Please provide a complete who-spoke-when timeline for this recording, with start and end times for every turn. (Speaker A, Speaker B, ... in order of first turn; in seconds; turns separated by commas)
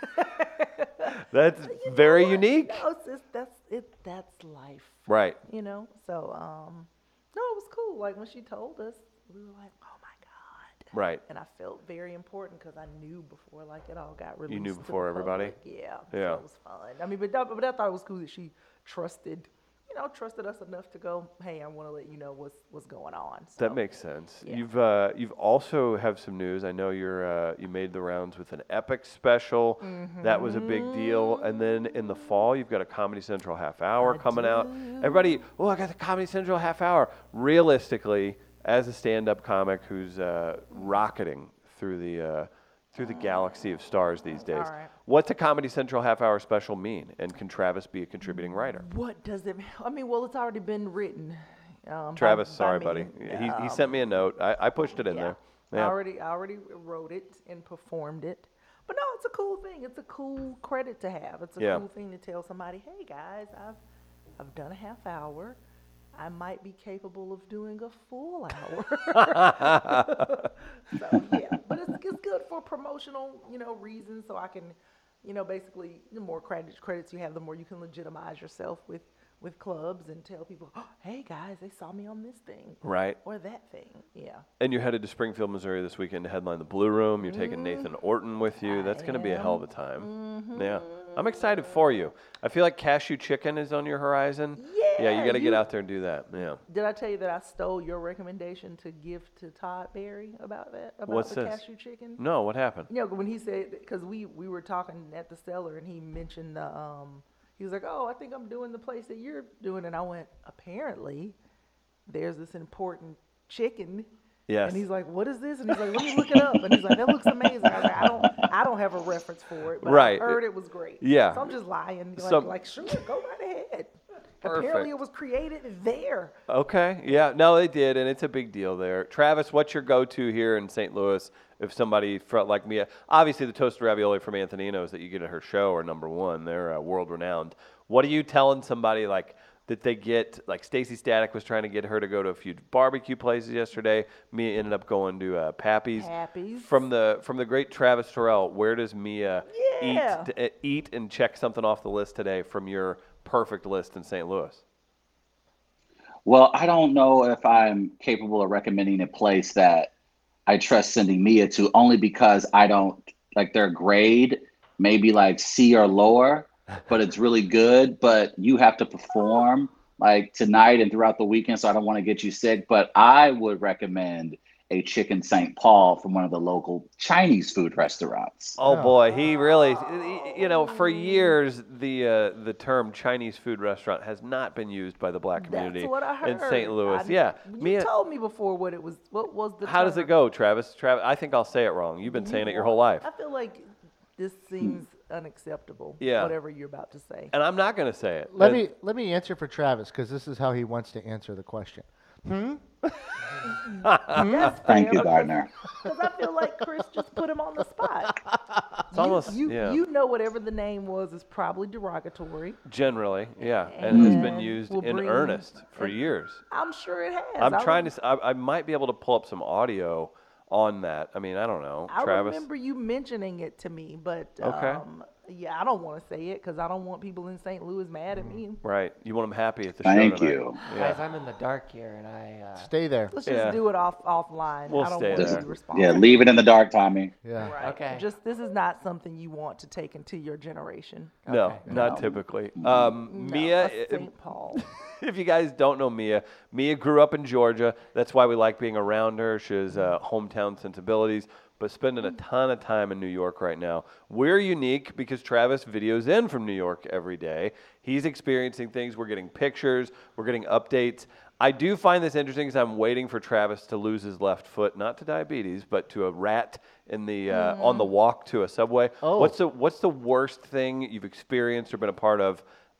Speaker A: 0.1-1.1, Speaker B: 1.3-2.8, Speaker A: 1.6-23.8, Speaker B: 5.1-5.4, Speaker B: 10.9-11.2, Speaker B: 14.5-15.6, Speaker B: 16.1-16.4, Speaker B: 23.6-48.9, Speaker A: 29.8-31.9, Speaker A: 34.0-35.4, Speaker A: 43.0-43.6, Speaker A: 44.5-44.9, Speaker A: 48.2-53.9, Speaker B: 52.1-55.9, Speaker A: 55.0-63.8, Speaker B: 61.6-61.8, Speaker A: 64.4-65.6, Speaker A: 66.1-84.4, Speaker B: 69.2-70.2, Speaker B: 82.8-83.2, Speaker B: 84.6-96.6, Speaker A: 87.2-87.9, Speaker A: 88.6-91.8, Speaker A: 94.5-95.6, Speaker A: 96.7-102.2, Speaker B: 101.1-101.6, Speaker B: 102.2-102.9, Speaker A: 102.9-111.3, Speaker A: 112.1-114.1, Speaker B: 114.5-114.8, Speaker A: 114.6-126.3, Speaker B: 116.0-116.6, Speaker B: 119.8-120.4, Speaker B: 121.0-121.5, Speaker B: 122.2-122.5, Speaker B: 124.4-124.9, Speaker B: 126.5-154.6, Speaker A: 145.9-146.8, Speaker A: 149.4-150.3, Speaker C: 156.2-159.9, Speaker C: 160.5-178.6, Speaker B: 178.6-187.9, Speaker D: 178.6-178.9, Speaker A: 179.1-181.4, Speaker A: 185.4-190.1, Speaker B: 189.6-193.1, Speaker A: 192.0-197.3, Speaker B: 196.0-196.3, Speaker B: 197.3-198.6, Speaker D: 198.3-202.6, Speaker A: 203.4-208.2, Speaker B: 203.8-204.5, Speaker D: 204.1-204.6, Speaker C: 204.6-205.5, Speaker A: 208.9-212.6, Speaker B: 208.9-209.8, Speaker B: 212.7-216.4, Speaker A: 213.6-217.9, Speaker C: 213.9-214.4, Speaker B: 217.4-222.4, Speaker A: 221.9-228.6, Speaker B: 224.4-224.8, Speaker D: 228.1-228.4, Speaker B: 228.6-231.0, Speaker C: 229.8-230.6, Speaker E: 230.8-232.7, Speaker D: 232.6-233.1, Speaker A: 233.1-236.3, Speaker B: 233.2-233.6, Speaker B: 234.7-235.4, Speaker C: 235.1-237.1, Speaker D: 237.2-237.6, Speaker A: 237.4-241.1, Speaker E: 237.6-238.0, Speaker E: 241.2-241.7, Speaker B: 241.3-272.4, Speaker C: 241.7-242.9, Speaker A: 243.1-244.6, Speaker A: 267.3-267.9, Speaker D: 269.0-269.4